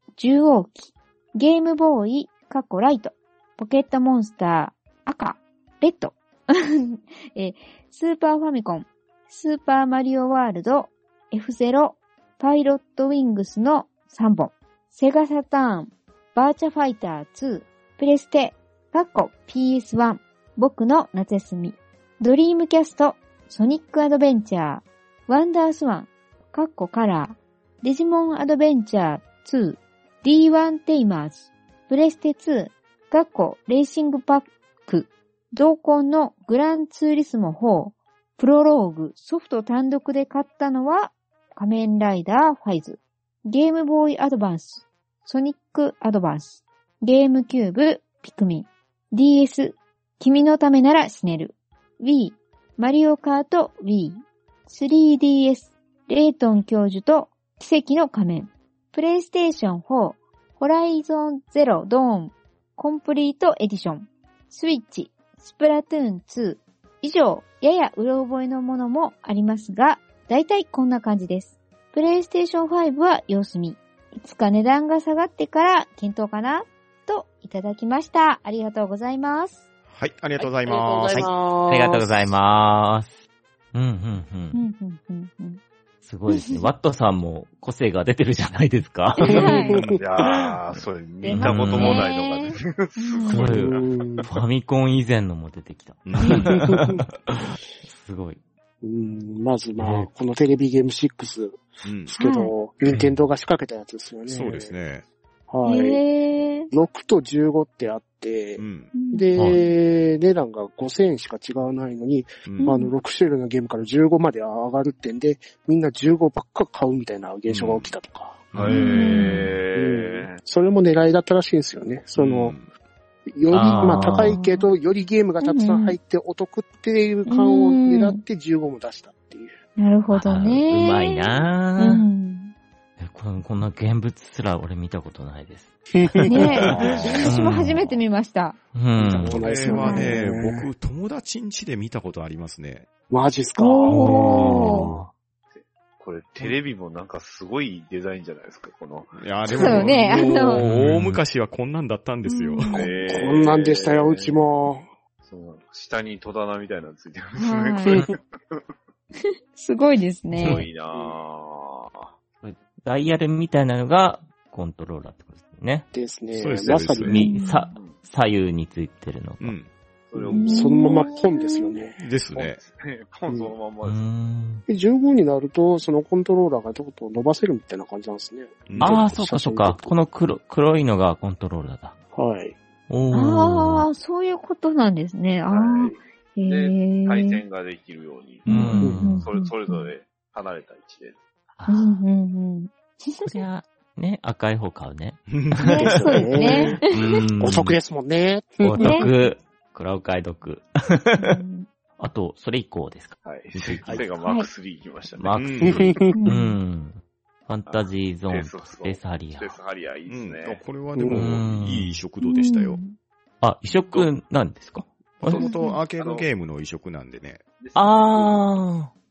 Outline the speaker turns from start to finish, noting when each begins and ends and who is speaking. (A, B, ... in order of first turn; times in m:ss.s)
0:00.2-1:19.6 A
1:19.9-1:21.3 B
1:20.4-1:22.3 C
1:21.1-1:24.6 D
1:24.5-1:25.6 A
1:26.0-1:29.5 D
1:26.3-1:26.7 A
1:29.2-1:29.9 A
1:29.3-1:30.0 C
1:29.7-1:30.0 B
1:30.0-1:34.1 E
1:30.2-1:30.6 D
1:31.2-1:33.5 A
1:31.3-1:32.1 D
1:33.3-1:38.4 D
1:33.5-1:34.4 C
1:36.0-1:36.7 B
1:36.6-1:37.0 C
1:38.8-1:44.8 C
1:39.8-1:40.1 D
1:41.8-1:42.1 B
1:42.2-1:42.5 A
1:42.9-1:43.2 D
1:44.3-1:45.0 B
1:45.5-1:46.0 C
1:45.6-1:46.7 A
1:46.7-1:58.5 C
1:48.6-1:48.9 B
1:48.9-1:49.6 A
1:52.6-1:52.9 A
1:57.5-1:57.9 B
1:58.5-1:58.9 B
1:58.6-2:00.4 E
1:58.7-1:59.5 A
1:59.7-2:02.6 C
2:02.1-2:02.7 B
2:03.3-2:09.6 C
2:03.5-2:04.4 D
2:03.7-2:04.7 A
2:05.4-2:06.0 A
2:07.3-2:08.2 A
2:09.8-2:12.5 A
2:10.1-2:12.1 D
2:13.0-2:18.0 D
2:15.9-2:16.4 C
2:16.2-2:18.6 A
2:16.4-2:17.4 B
2:18.7-2:19.5 D
2:19.0-2:20.7 C
2:19.2-2:22.9 B
2:19.6-2:20.1 A
2:23.1-2:25.1 C
2:23.6-2:24.9 A
2:23.9-2:24.9 D
2:25.5-2:29.2 E
2:29.2-2:32.8 B
2:29.5-2:30.8 A
2:29.7-2:30.6 C
2:30.7-2:31.2 D
2:32.2-2:32.9 A
2:32.7-2:34.5 E
2:32.7-2:34.9 C
2:35.2-2:38.6 E
2:37.4-2:38.0 A
2:39.2-2:40.6 A
2:40.4-2:40.6 D
2:40.4-2:42.1 E
2:42.4-2:45.9 D
2:45.9-2:47.2 C
2:46.3-2:47.2 B
2:47.0-2:49.6 D
2:47.1-2:47.7 A
2:47.7-2:48.0 E
2:49.4-2:49.7 B
2:50.1-2:50.9 E
2:50.1-2:52.0 C
2:50.3-2:51.8 A
2:52.0-2:52.6 B
2:52.3-2:54.1 E
2:53.3-2:53.5 C
2:53.8-2:54.6 D
2:54.7-2:59.9 C
2:58.7-2:59.0 B
2:58.8-3:02.0 D
3:02.1-3:02.6 C
3:02.9-3:03.9 D
3:03.1-3:07.4 A
3:05.5-3:08.5 E
3:08.4-3:09.3 D
3:08.4-3:09.9 A
3:08.8-3:09.1 C
3:09.0-3:11.2 E
3:11.5-3:12.0 D
3:11.7-3:13.3 A
3:13.2-3:17.8 D
3:15.3-3:16.0 B
3:15.6-3:16.8 A
3:15.8-3:16.8 C
3:17.4-3:19.1 C
3:18.6-3:21.4 D
3:18.8-3:19.3 A
3:21.1-3:21.7 A
3:22.0-3:24.1 D
3:23.2-3:25.7 E
3:25.2-3:29.6 D
3:25.3-3:25.8 B
3:25.6-3:26.2 C
3:26.1-3:26.6 A
3:27.7-3:30.6 E
3:30.1-3:32.8 B
3:30.9-3:31.2 C
3:31.1-3:32.0 D
3:32.2-3:32.9 A
3:33.4-3:35.5 D
3:35.2-3:37.4 B
3:35.3-3:36.2 E
3:35.4-3:35.8 A
3:37.6-3:38.5 E
3:37.7-3:38.9 D